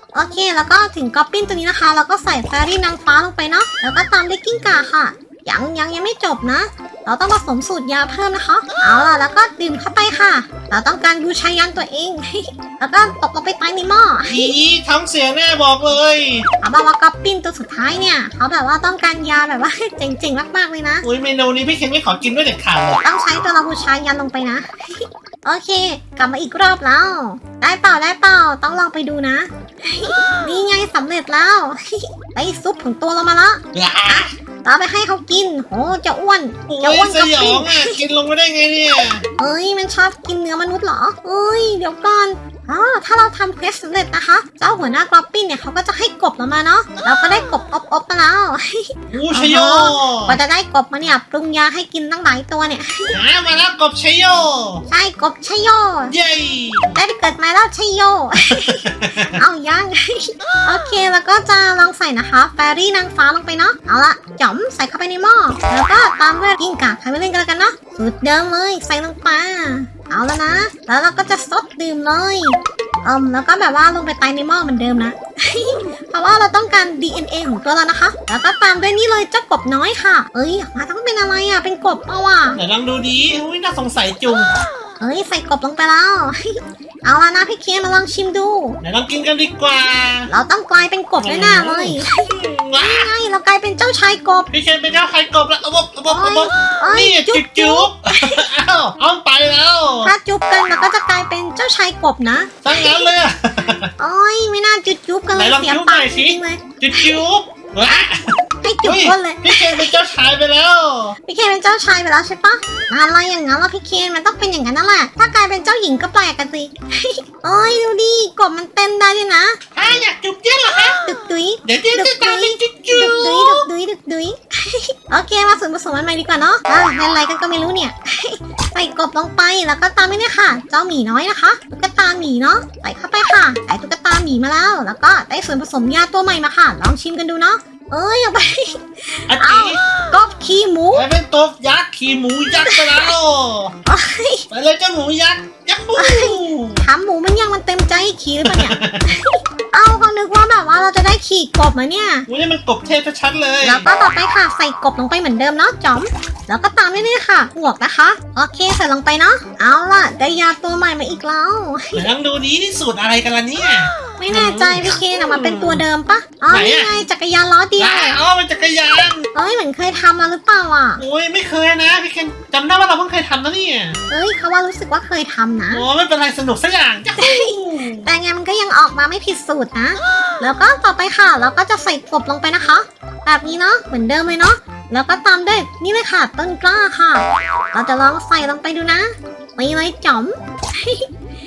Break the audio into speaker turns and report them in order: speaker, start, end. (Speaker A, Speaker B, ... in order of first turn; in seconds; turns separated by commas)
Speaker A: 0.1-14.5, Speaker B: 14.3-16.5, Speaker A: 16.6-21.1, Speaker B: 21.0-23.0, Speaker A: 23.0-38.0, Speaker B: 33.7-34.3, Speaker B: 36.7-39.2, Speaker A: 39.4-53.2, Speaker B: 49.1-50.4, Speaker B: 53.1-54.9, Speaker A: 54.9-56.1, Speaker B: 56.1-57.0, Speaker A: 57.0-82.6, Speaker B: 58.5-59.4, Speaker B: 82.6-84.5, Speaker A: 85.0-88.8, Speaker B: 88.8-90.3, Speaker A: 90.3-94.5, Speaker B: 91.2-93.1, Speaker B: 94.5-100.1, Speaker A: 96.1-98.5, Speaker A: 100.0-103.0, Speaker B: 102.6-103.9, Speaker A: 104.0-107.2, Speaker B: 105.4-108.3, Speaker A: 108.6-110.0, Speaker B: 108.8-111.2, Speaker A: 111.3-119.6, Speaker B: 119.8-121.0, Speaker A: 121.0-141.1, Speaker B: 121.7-123.7, Speaker B: 139.3-139.8, Speaker B: 140.9-143.7, Speaker A: 142.7-143.1, Speaker A: 143.9-144.4, Speaker B: 144.5-146.8, Speaker A: 146.0-152.3, Speaker B: 148.4-149.1, Speaker B: 152.3-153.9, Speaker A: 153.6-162.1, Speaker B: 161.9-165.8, Speaker A: 164.2-168.2, Speaker B: 166.5-166.9, Speaker B: 167.8-169.3, Speaker A: 169.3-171.0, Speaker B: 171.0-174.0, Speaker A: 174.1-175.9, Speaker B: 175.7-178.1, Speaker A: 177.2-191.1